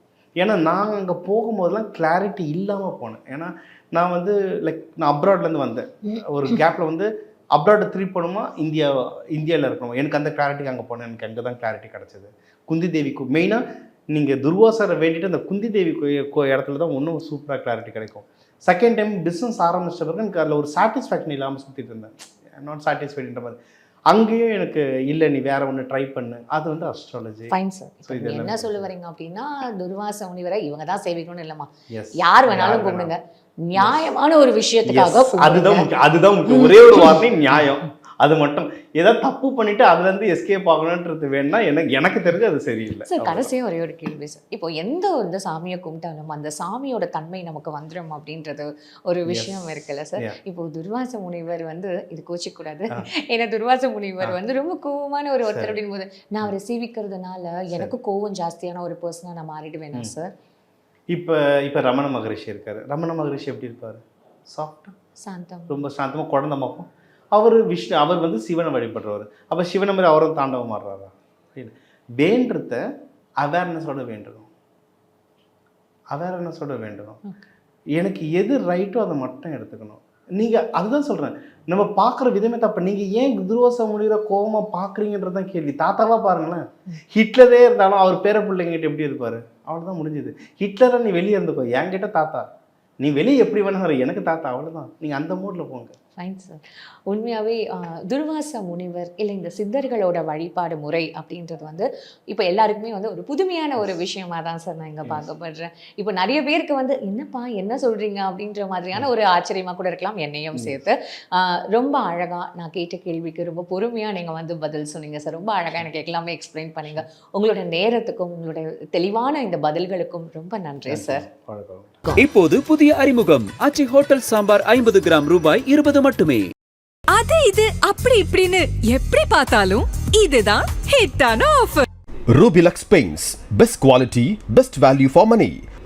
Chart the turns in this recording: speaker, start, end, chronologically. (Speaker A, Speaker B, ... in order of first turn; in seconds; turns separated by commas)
Speaker A: 0.4-23.6, Speaker A: 24.1-27.5, Speaker B: 27.5-31.7, Speaker A: 28.1-28.9, Speaker A: 31.9-33.1, Speaker B: 32.2-35.9, Speaker A: 33.8-34.0, Speaker A: 34.9-43.5, Speaker B: 36.5-37.2, Speaker B: 43.0-60.3, Speaker A: 49.3-50.3, Speaker A: 55.4-55.8, Speaker A: 61.1-64.9, Speaker B: 65.2-65.8, Speaker A: 65.7-72.8, Speaker A: 73.4-74.5, Speaker A: 76.1-77.2, Speaker A: 78.0-92.5, Speaker A: 93.0-96.0, Speaker B: 96.2-121.2, Speaker A: 120.8-122.1, Speaker C: 122.2-126.4, Speaker D: 127.1-131.8, Speaker E: 132.3-135.6